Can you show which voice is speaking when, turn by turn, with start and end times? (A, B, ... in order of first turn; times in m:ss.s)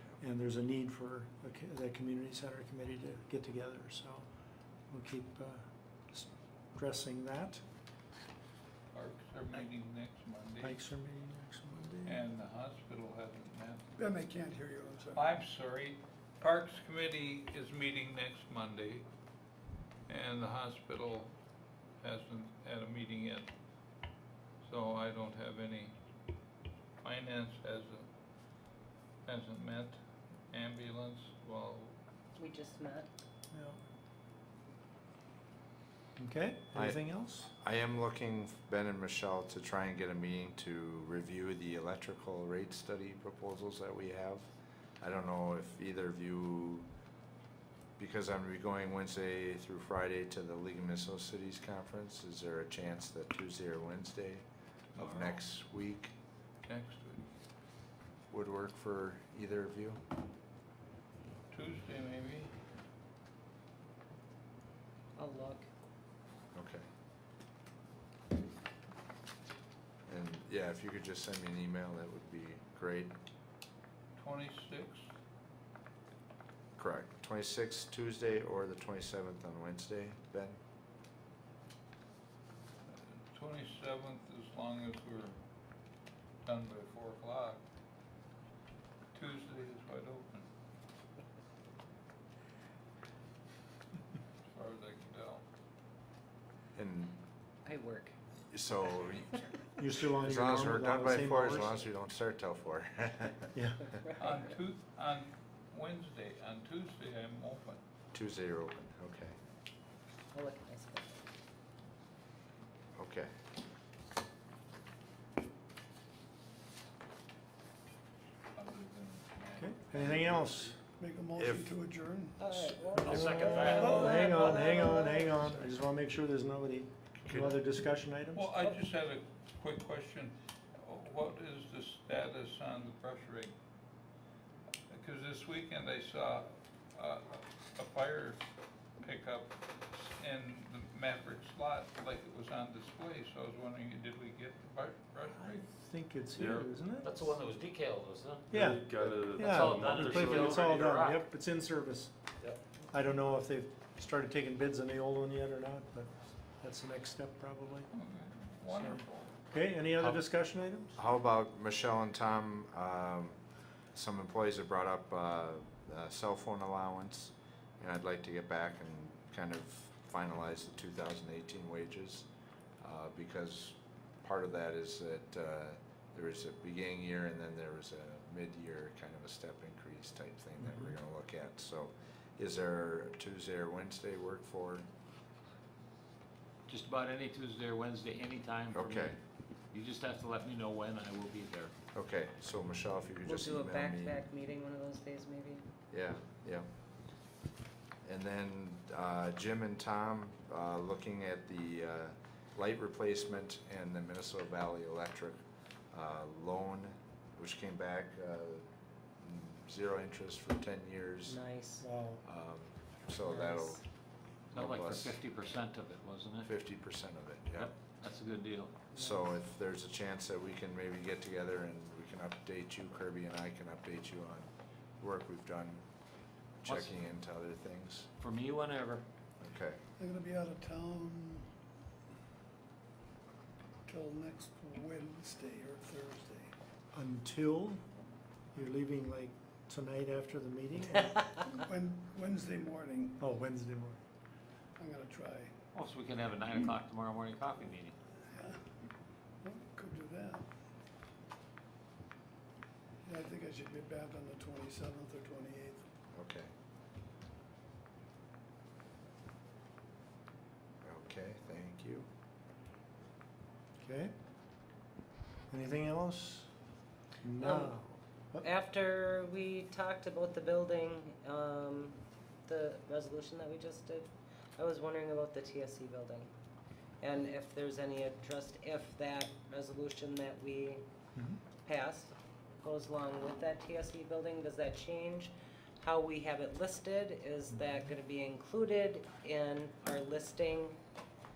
0:00.2-0:04.3 A
0:04.9-0:07.6 A
0:08.9-0:10.8 B
0:10.6-0:12.2 A
0:12.0-0:13.8 B
0:14.0-0:15.2 C
0:15.1-0:19.0 B
0:20.1-0:21.3 B
0:22.0-0:23.5 B
0:24.6-0:25.9 B
0:27.0-0:28.1 B
0:29.2-0:30.0 B
0:30.5-0:31.9 B
0:32.4-0:33.1 D
0:33.5-0:33.8 A
0:36.2-0:37.5 A
0:36.7-0:44.4 E
0:45.0-0:46.9 E
0:48.0-0:54.4 E
0:54.9-0:55.4 B
0:55.0-0:56.1 E
0:56.6-0:57.2 B
0:58.3-1:00.0 E
1:01.5-1:02.5 B
1:05.2-1:05.6 D
1:06.5-1:06.8 E
1:10.1-1:13.2 E
1:14.2-1:15.1 B
1:16.8-1:20.6 E
1:22.9-1:25.4 B
1:26.4-1:27.6 B
1:29.1-1:30.5 B
1:34.4-1:35.4 B
1:36.8-1:37.2 E
1:37.6-1:38.1 D
1:38.5-1:39.4 E
1:39.8-1:41.7 A
1:40.1-1:43.5 E
1:43.5-1:43.9 A
1:44.2-1:47.8 B
1:48.1-1:49.3 E
1:50.3-1:51.2 D
1:53.0-1:53.3 E
1:58.5-2:00.7 B
1:59.6-2:00.8 A
2:01.0-2:02.5 C
2:01.4-2:01.7 E
2:02.4-2:05.3 D
2:03.0-2:04.2 F
2:03.1-2:08.5 A
2:03.7-2:05.0 B
2:07.2-2:07.6 E
2:08.3-2:13.5 B
2:14.9-2:18.4 B
2:19.0-2:25.6 B
2:25.4-2:27.3 A
2:26.4-2:26.8 G
2:27.0-2:28.5 F
2:28.5-2:30.6 G
2:28.5-2:28.8 A
2:29.4-2:32.1 A
2:29.4-2:31.2 F
2:32.9-2:37.9 A
2:37.9-2:39.3 B
2:38.7-2:41.0 A
2:41.0-2:43.4 E
2:43.9-2:52.3 E
2:52.8-3:04.9 E
3:00.6-3:00.9 A
3:06.7-3:09.1 F
3:08.7-3:09.2 E
3:09.7-3:11.7 F
3:11.9-3:14.2 E
3:13.2-3:15.6 D
3:15.9-3:16.7 E
3:18.0-3:28.6 E
3:29.2-3:31.4 E
3:31.2-3:31.8 D
3:31.8-3:32.2 A
3:32.2-3:33.8 E
3:33.2-3:33.8 D
3:34.5-3:35.2 E
3:34.5-3:36.5 F
3:36.4-3:37.7 E
3:37.6-3:38.9 F
3:38.9-3:45.8 E
3:46.6-3:48.1 E
3:46.6-3:46.9 F
3:48.2-3:49.0 F
3:49.4-3:49.8 E
3:50.0-3:51.5 C
3:53.9-3:56.5 C
3:56.9-3:57.8 A
3:58.5-4:01.1 A
4:01.5-4:03.2 C
4:03.2-4:04.0 A
4:04.8-4:05.5 C
4:05.7-4:08.0 F
4:08.3-4:08.6 C
4:09.4-4:10.4 C
4:13.0-4:15.8 C
4:16.1-4:16.5 E
4:20.8-4:22.1 E
4:23.8-4:24.1 A
4:25.5-4:26.5 A
4:27.2-4:28.5 A
4:27.4-4:27.8 D
4:28.4-4:36.3 D
4:37.0-4:40.8 D
4:41.6-4:50.8 D